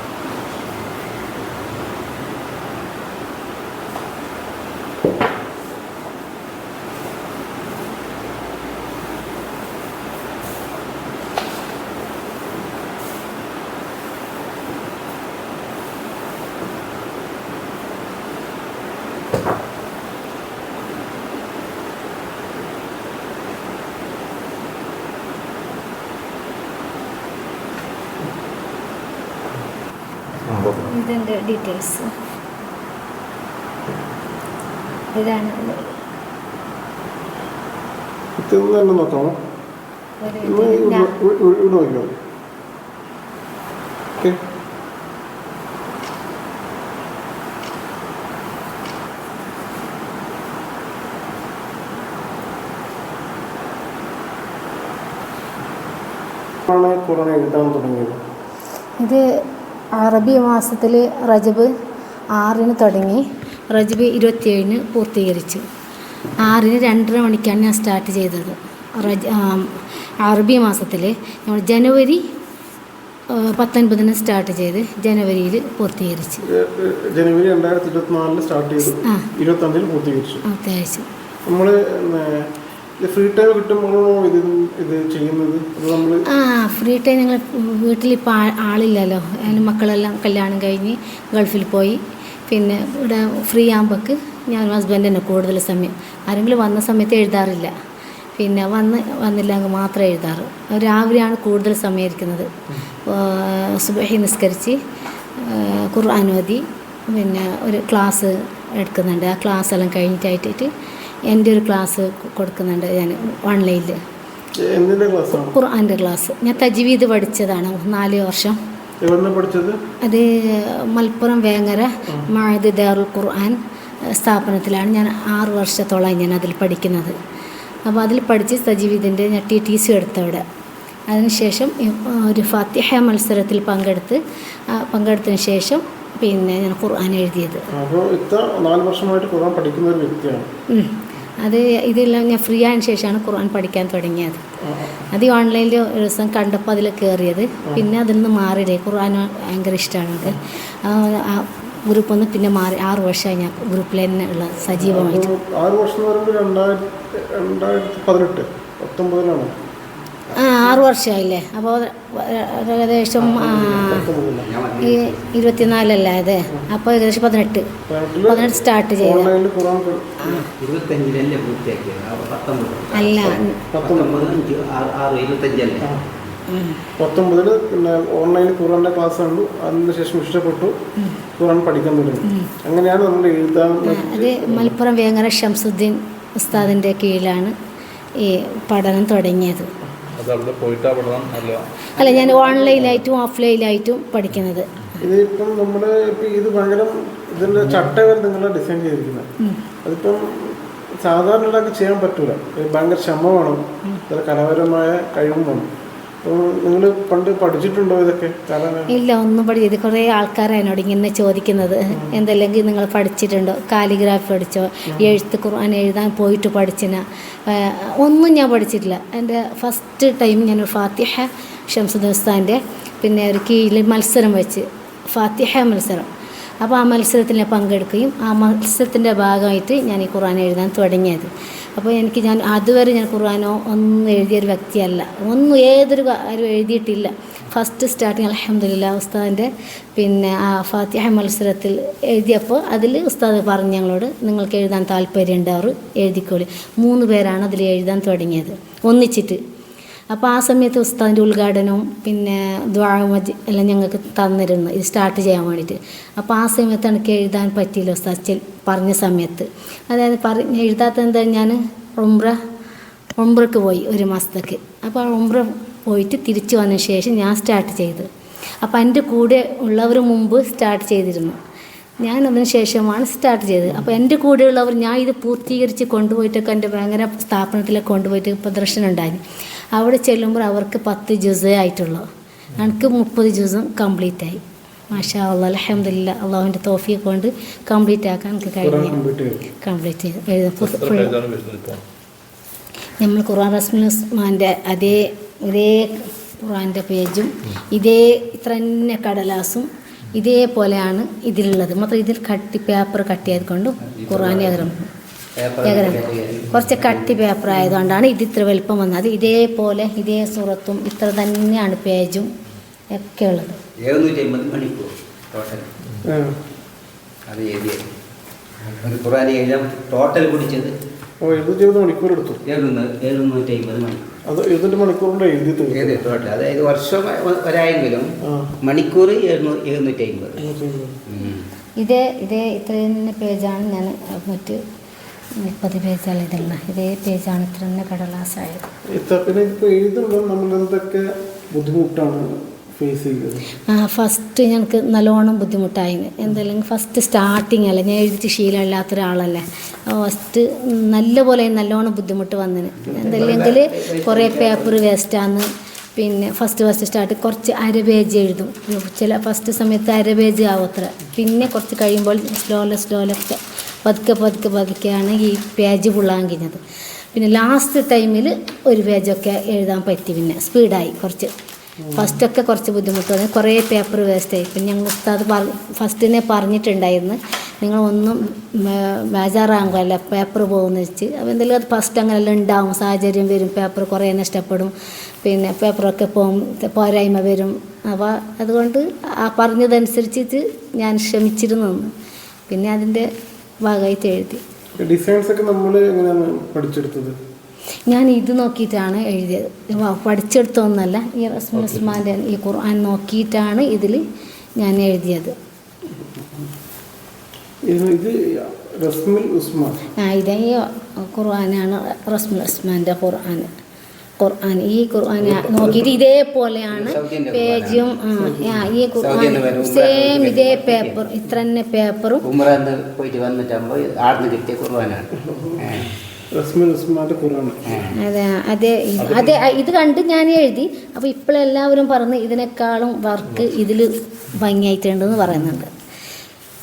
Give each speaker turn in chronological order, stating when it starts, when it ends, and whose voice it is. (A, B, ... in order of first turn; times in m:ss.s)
0:30.4-0:30.8 A
0:30.8-0:32.1 B
0:35.1-0:35.9 B
0:38.4-0:39.4 C
0:40.2-0:41.2 B
0:40.4-0:42.2 C
0:56.7-0:58.2 C
1:00.0-1:01.7 B
1:02.3-1:05.6 B
1:06.4-1:12.2 B
1:13.3-1:16.4 B
1:16.4-1:20.4 C
1:19.0-1:19.3 B
1:20.4-1:21.0 B
1:21.4-1:22.5 C
1:23.0-1:26.2 C
1:26.3-1:37.7 B
1:38.4-1:42.5 B
1:43.0-1:44.8 B
1:45.4-1:50.7 B
1:51.3-1:54.0 B
1:54.6-1:55.6 C
1:55.3-1:58.6 B
1:59.0-1:59.8 C
2:00.0-2:07.2 B
2:07.8-2:10.4 B
2:11.1-2:17.6 B
2:17.7-2:20.5 C
2:20.7-2:24.4 B
2:24.6-2:25.1 C
2:25.1-2:35.3 B
2:34.7-2:39.5 C
2:40.3-2:44.1 B
2:43.4-2:45.2 D
2:43.4-2:44.5 C
2:44.8-2:47.7 B
2:47.9-2:50.4 C
2:48.3-2:49.3 B
2:50.6-2:55.9 D
2:52.9-2:53.6 B
2:53.7-2:54.4 C
2:55.8-2:56.0 C
2:56.5-2:56.9 B
2:57.0-3:00.8 C
3:01.4-3:04.8 C
3:02.2-3:02.5 B
3:03.8-3:07.5 B
3:08.2-3:09.7 B
3:10.1-3:11.6 A
3:12.0-3:13.0 C
3:12.0-3:14.9 B
3:15.0-3:19.2 C
3:19.8-3:25.7 C
3:26.2-3:28.9 C
3:28.9-3:46.1 B
3:46.6-4:09.4 B
4:10.1-4:22.4 B
4:23.2-4:28.1 B
4:28.6-4:31.4 B
4:32.0-4:39.2 B
4:39.7-4:42.0 B
4:42.6-4:49.0 B
4:48.6-4:49.4 C
4:49.6-4:51.2 B
4:50.6-4:51.8 A
4:53.0-5:04.9 B
5:03.9-5:04.7 D
5:05.4-5:07.2 D
5:05.6-5:12.3 B
5:07.5-5:07.8 C
5:12.9-5:13.6 B
5:13.8-5:15.7 D
5:16.0-5:16.4 C
5:17.3-5:17.8 D
5:18.6-5:20.7 D
5:21.2-5:22.4 C
5:22.4-5:24.0 D
5:24.2-5:26.0 C
5:25.7-5:30.4 D
5:28.2-5:28.5 C
5:30.4-5:31.0 C
5:31.1-5:31.4 D
5:31.8-5:34.6 B
5:35.4-5:38.7 B
5:38.9-5:43.4 C
5:43.7-6:06.6 B
5:52.8-5:54.8 D
6:07.1-6:11.3 B
6:11.8-6:12.2 C
6:11.9-6:31.9 B
6:32.5-6:33.1 B
6:33.6-6:34.4 B
6:34.8-6:37.2 C
6:37.9-6:44.0 B
6:41.6-6:41.9 A
6:44.6-6:45.3 B
6:47.6-6:49.8 C
6:50.0-6:53.5 B
6:54.2-7:02.2 B
6:55.2-6:55.9 D
6:56.7-6:57.9 D
6:58.2-6:58.7 C
6:59.0-7:01.0 D
7:02.2-7:05.9 D
7:06.3-7:07.8 C
7:07.7-7:08.0 D
7:07.9-7:15.7 B
7:09.0-7:09.4 A